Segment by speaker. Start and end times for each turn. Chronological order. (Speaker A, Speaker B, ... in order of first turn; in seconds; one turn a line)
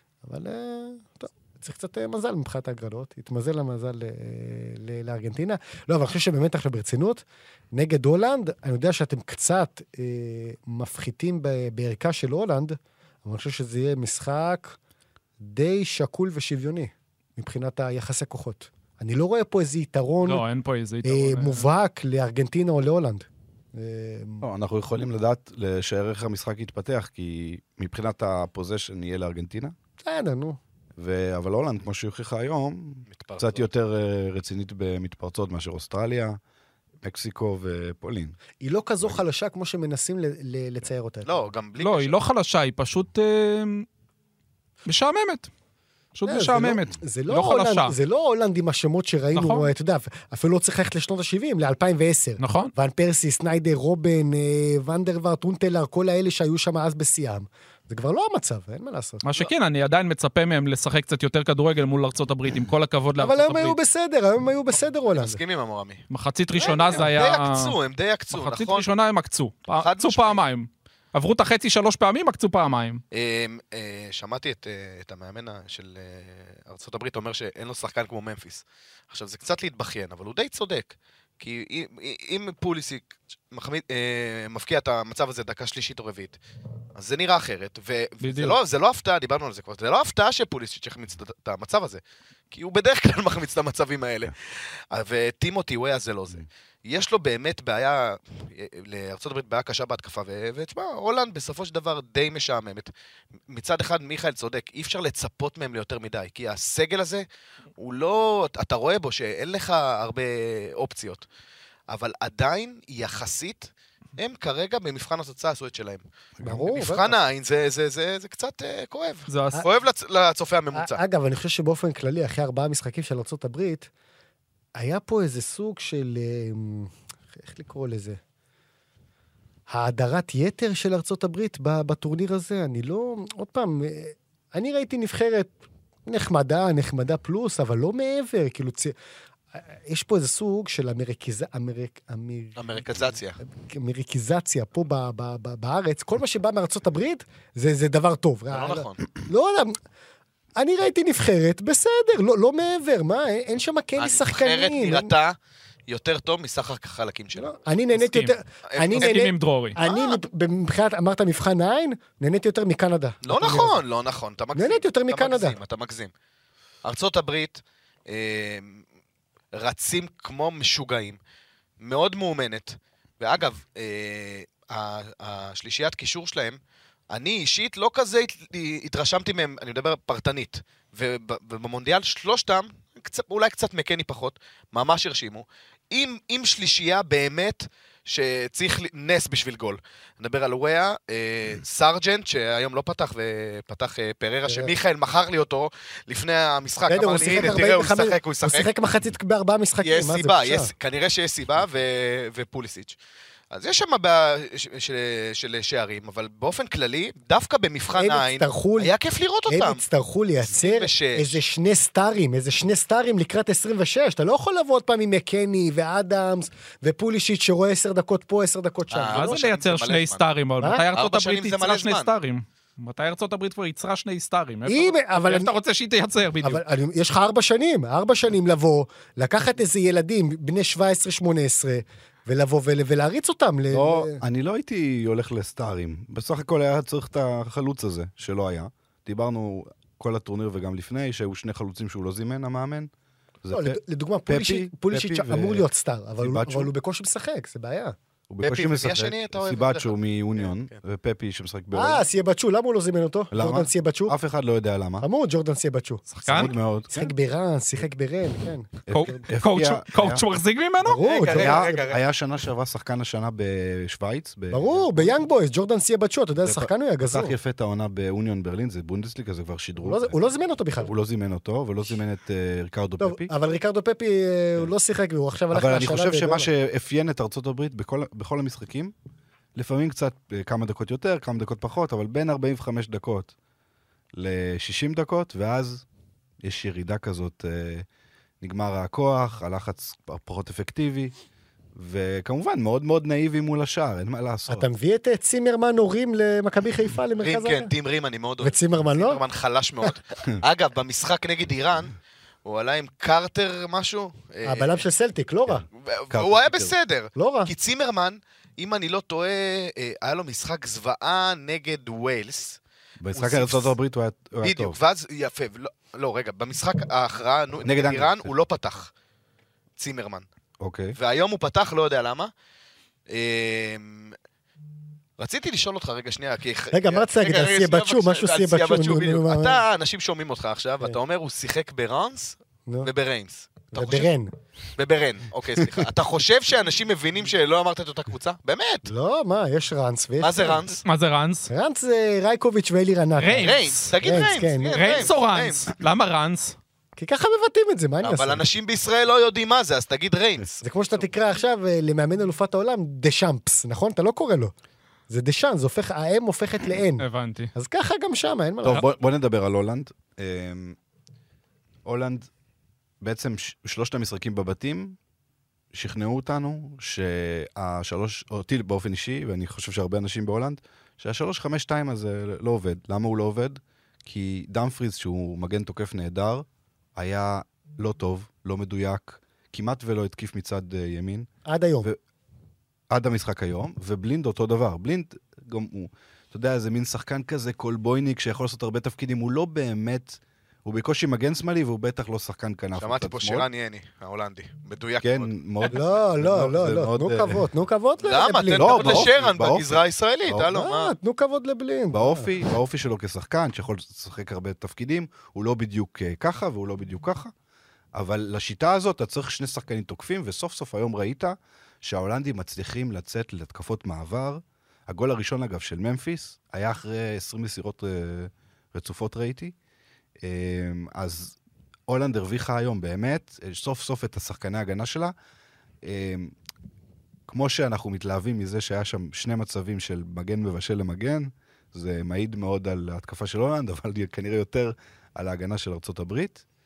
Speaker A: 0.2-14.8
Speaker A: 15.4-20.4
Speaker B: 20.2-21.7
Speaker A: 21.0-24.4
Speaker C: 24.4-29.8
Speaker A: 30.0-30.6
Speaker C: 31.0-36.4
Speaker D: 33.1-33.7
Speaker C: 37.0-38.4
Speaker A: 38.6-41.5
Speaker D: 41.2-42.1
Speaker B: 41.8-43.9
Speaker B: 44.9-45.5
Speaker B: 46.1-48.0
Speaker A: 46.3-59.2
Speaker B: 49.4-49.7
Speaker B: 52.4-52.7
Speaker B: 59.2-63.8
Speaker A: 63.2-65.4
Speaker D: 65.2-66.0
Speaker B: 66.1-67.8
Speaker D: 66.6-68.9
Speaker B: 68.3-73.0
Speaker D: 69.8-70.4
Speaker D: 73.1-86.4
Speaker D: 87.0-102.9
Speaker B: 88.2-88.6
Speaker D: 103.5-107.2
Speaker D: 107.8-111.2
Speaker D: 111.9-121.0
Speaker A: 116.4-117.2
Speaker B: 119.3-119.6
Speaker A: 120.7-123.9
Speaker A: 124.8-128.2
Speaker A: 129.7-135.6
Speaker A: 136.1-138.9
Speaker A: 139.6-142.8
Speaker D: 142.6-143.4
Speaker A: 143.4-149.8
Speaker D: 148.5-149.0
Speaker A: 150.6-155.1
Speaker D: 154.0-155.4
Speaker D: 155.9-157.6
Speaker A: 157.4-163.8
Speaker B: 158.0-158.3
Speaker D: 158.7-159.2
Speaker B: 158.9-159.8
Speaker D: 159.8-160.2
Speaker D: 163.2-166.1
Speaker A: 164.6-165.6
Speaker D: 166.8-168.8
Speaker D: 169.5-171.2
Speaker D: 171.8-176.6
Speaker D: 177.1-198.7
Speaker A: 194.5-194.7
Speaker A: 196.9-200.7
Speaker D: 199.8-203.0
Speaker D: 203.5-209.8
Speaker A: 207.9-208.9
Speaker A: 209.5-219.4
Speaker D: 210.4-211.4
Speaker D: 218.9-220.2
Speaker B: 219.1-226.6
Speaker D: 220.9-222.1
Speaker A: 224.7-225.5
Speaker A: 226.4-234.2
Speaker C: 233.7-242.9
Speaker C: 243.4-245.7
Speaker A: 243.5-247.9
Speaker C: 246.2-246.7
Speaker C: 248.3-252.1
Speaker D: 248.4-250.8
Speaker A: 251.7-254.2
Speaker C: 253.3-255.1
Speaker A: 255.0-256.1
Speaker B: 256.1-256.5
Speaker C: 256.2-257.1
Speaker A: 256.9-258.8
Speaker C: 258.9-260.2
Speaker B: 258.9-261.0
Speaker A: 260.8-261.9
Speaker D: 261.0-262.0
Speaker C: 261.3-265.2
Speaker A: 264.5-267.3
Speaker C: 266.4-270.2
Speaker A: 269.8-270.9
Speaker C: 270.8-273.3
Speaker A: 273.0-276.5
Speaker C: 275.5-278.9
Speaker C: 279.6-283.3
Speaker C: 284.1-285.9
Speaker C: 286.4-287.9
Speaker C: 288.4-291.1
Speaker C: 291.8-294.7
Speaker A: 294.5-297.7
Speaker D: 297.2-304.8
Speaker A: 298.4-299.2
Speaker A: 304.4-305.6
Speaker C: 305.5-306.7
Speaker D: 305.8-312.6
Speaker A: 307.2-307.5
Speaker C: 313.0-314.8
Speaker D: 313.1-313.7
Speaker D: 314.4-318.9
Speaker C: 317.6-318.3
Speaker D: 319.8-320.3
Speaker C: 320.6-321.0
Speaker D: 320.9-322.3
Speaker D: 323.1-324.2
Speaker D: 325.2-334.1
Speaker A: 326.7-329.6
Speaker A: 333.7-334.3
Speaker D: 334.8-338.9
Speaker A: 338.9-340.6
Speaker D: 340.2-340.8
Speaker B: 340.9-341.5
Speaker A: 341.5-345.1
Speaker B: 343.2-344.0
Speaker D: 343.4-345.7
Speaker B: 344.7-346.6
Speaker A: 347.0-348.4
Speaker D: 348.0-350.6
Speaker A: 350.6-354.5
Speaker A: 355.1-358.9
Speaker B: 357.0-357.5
Speaker C: 358.6-360.8
Speaker C: 361.9-362.3
Speaker C: 363.0-365.0
Speaker C: 365.7-381.3
Speaker A: 381.5-381.9
Speaker C: 382.9-393.5
Speaker D: 392.8-395.3
Speaker C: 395.0-397.4
Speaker A: 395.7-399.1
Speaker D: 398.0-400.9
Speaker C: 398.5-400.5
Speaker A: 400.5-402.3
Speaker C: 401.9-407.3
Speaker C: 407.9-419.6
Speaker C: 420.2-421.4
Speaker C: 421.9-425.1
Speaker C: 425.8-426.3
Speaker C: 427.3-436.4